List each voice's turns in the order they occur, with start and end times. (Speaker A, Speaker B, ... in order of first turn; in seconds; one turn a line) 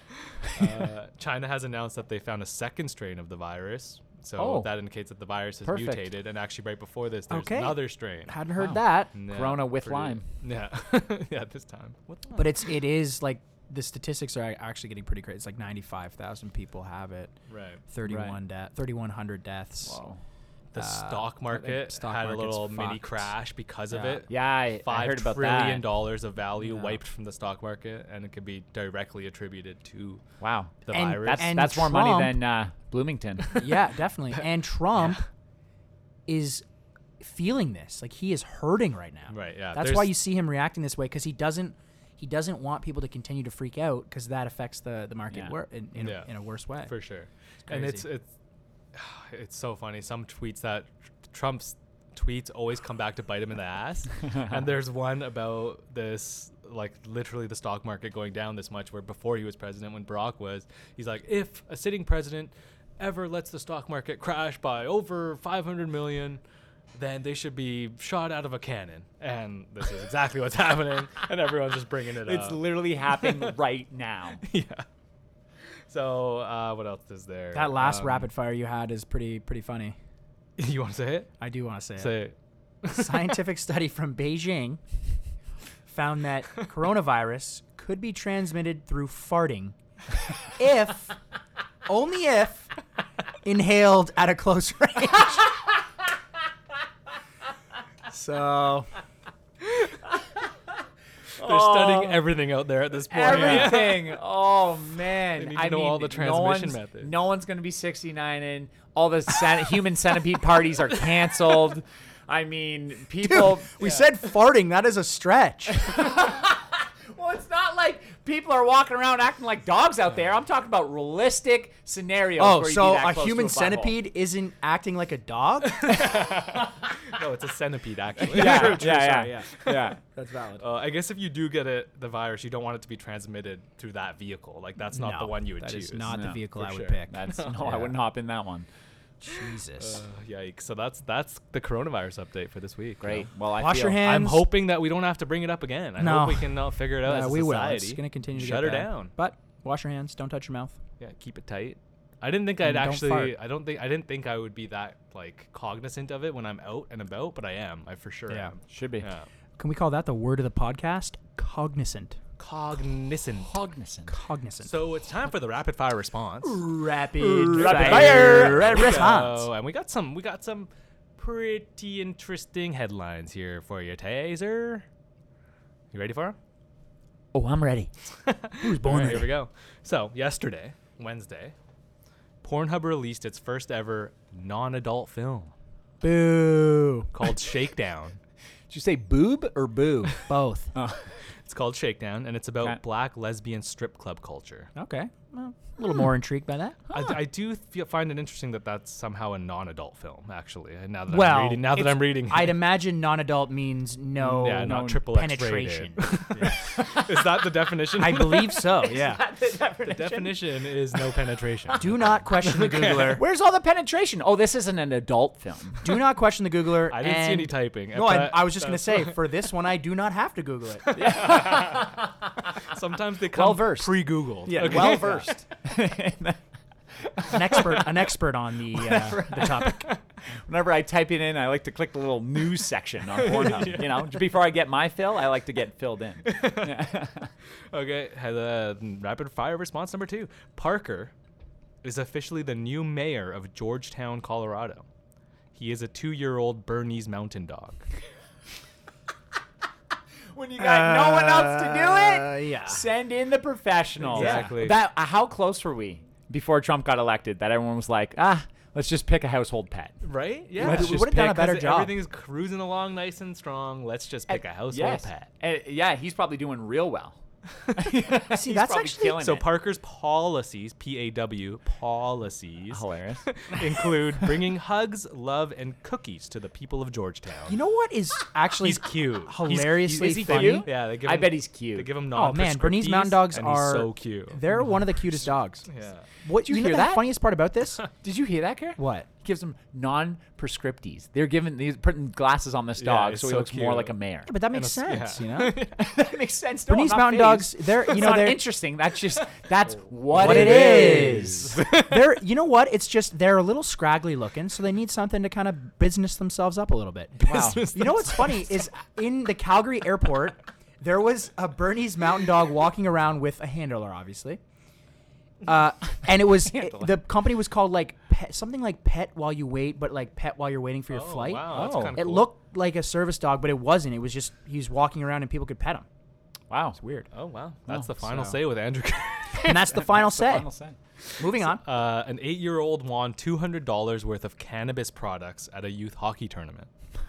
Speaker A: 0.3-8.4
Speaker B: 0.4-0.9
Speaker B: 4.4-4.7
Speaker B: 5.6-6.1
Speaker C: 7.3-9.1
Speaker B: 8.6-10.2
Speaker A: 9.1-12.7
Speaker C: 12.4-17.3
Speaker A: 17.5-17.8
Speaker C: 17.9-20.0
Speaker B: 18.1-18.4
Speaker B: 19.8-20.2
Speaker A: 20.7-30.2
Speaker C: 20.8-23.3
Speaker B: 23.9-25.9
Speaker B: 26.6-27.0
Speaker B: 30.4-33.5
Speaker A: 30.8-31.6
Speaker C: 30.9-32.4
Speaker C: 33.5-35.2
Speaker C: 36.3-36.6
Speaker C: 37.2-46.9
Speaker A: 39.3-40.1
Speaker A: 46.0-48.3
Speaker C: 47.7-48.0
Speaker A: 48.9-66.4
Speaker A: 66.9-73.5
Speaker B: 72.2-74.4
Speaker A: 74.4-74.8
Speaker A: 75.9-78.3
Speaker C: 77.5-80.0
Speaker A: 80.6-81.3
Speaker C: 81.4-82.2
Speaker A: 82.0-83.3
Speaker C: 82.9-84.8
Speaker C: 85.8-89.7
Speaker C: 90.4-91.1
Speaker C: 91.9-92.7
Speaker C: 93.4-95.5
Speaker C: 98.1-98.9
Speaker B: 100.2-100.5
Speaker B: 101.4-102.3
Speaker A: 101.4-104.2
Speaker B: 103.1-113.7
Speaker C: 103.2-103.8
Speaker A: 105.3-107.1
Speaker C: 113.2-115.9
Speaker B: 115.7-124.0
Speaker C: 122.4-126.0
Speaker A: 125.7-129.9
Speaker B: 128.2-130.0
Speaker C: 128.3-129.5
Speaker C: 130.1-130.6
Speaker A: 130.6-137.9
Speaker C: 134.9-137.2
Speaker B: 136.1-136.5
Speaker B: 137.1-138.7
Speaker C: 139.2-140.0
Speaker A: 139.8-143.3
Speaker B: 143.0-144.0
Speaker C: 143.6-144.5
Speaker A: 144.0-149.1
Speaker C: 146.0-150.8
Speaker A: 151.0-159.3
Speaker C: 152.6-153.3
Speaker C: 158.3-158.5
Speaker B: 158.7-159.1
Speaker C: 159.6-162.2
Speaker A: 162.4-163.5
Speaker B: 163.4-164.1
Speaker C: 164.1-164.7
Speaker A: 164.6-166.6
Speaker C: 166.4-169.4
Speaker B: 167.2-169.1
Speaker A: 167.5-174.8
Speaker A: 175.9-176.4
Speaker B: 177.3-177.9
Speaker A: 178.2-181.5
Speaker C: 178.6-179.3
Speaker A: 182.4-185.5
Speaker C: 186.0-187.1
Speaker A: 187.1-188.2
Speaker B: 188.7-190.2
Speaker C: 190.3-190.7
Speaker B: 190.7-191.1
Speaker A: 191.4-194.7
Speaker C: 194.8-196.8
Speaker B: 196.9-197.2
Speaker A: 196.9-202.6
Speaker C: 201.1-206.7
Speaker B: 204.2-205.0
Speaker A: 204.3-208.6
Speaker B: 206.8-207.2
Speaker C: 208.0-209.2
Speaker B: 208.7-212.0
Speaker A: 209.8-213.2
Speaker C: 211.8-213.2
Speaker B: 213.1-215.8
Speaker C: 215.8-221.0
Speaker A: 216.9-219.2
Speaker A: 220.8-222.0
Speaker B: 220.9-222.5
Speaker A: 222.6-225.3
Speaker B: 223.3-226.4
Speaker C: 224.5-225.4
Speaker B: 227.0-227.6
Speaker C: 227.3-229.8
Speaker B: 228.7-229.7
Speaker B: 230.4-237.3
Speaker A: 233.1-234.2
Speaker A: 236.2-237.0
Speaker A: 237.7-241.1
Speaker A: 241.8-244.8
Speaker A: 245.5-247.8
Speaker B: 250.3-259.9
Speaker C: 250.6-252.9
Speaker A: 254.0-254.8
Speaker C: 254.1-254.5
Speaker A: 260.0-265.3
Speaker B: 260.6-261.1
Speaker C: 260.6-262.0
Speaker B: 264.3-267.2
Speaker B: 267.7-269.4
Speaker C: 268.3-269.3
Speaker A: 269.2-277.6
Speaker B: 272.7-273.3
Speaker C: 277.5-280.7
Speaker A: 278.6-286.1
Speaker B: 279.9-281.9
Speaker C: 282.1-285.7
Speaker C: 286.2-287.8
Speaker B: 286.4-287.1
Speaker B: 288.0-294.3
Speaker C: 288.8-289.1
Speaker A: 292.8-293.9
Speaker C: 294.3-295.6
Speaker A: 294.5-296.2
Speaker B: 295.8-301.6
Speaker C: 296.7-298.4
Speaker A: 299.7-302.1
Speaker C: 300.1-314.4
Speaker A: 307.2-308.6
Speaker B: 307.2-307.7
Speaker C: 315.4-325.9
Speaker B: 316.3-317.0
Speaker A: 320.9-322.3
Speaker B: 321.5-322.0
Speaker B: 326.5-326.8
Speaker C: 326.8-327.1
Speaker A: 327.1-329.8
Speaker B: 327.7-327.9
Speaker C: 328.0-328.3
Speaker C: 329.4-330.5
Speaker B: 329.8-330.8
Speaker A: 331.1-336.7
Speaker C: 331.2-331.6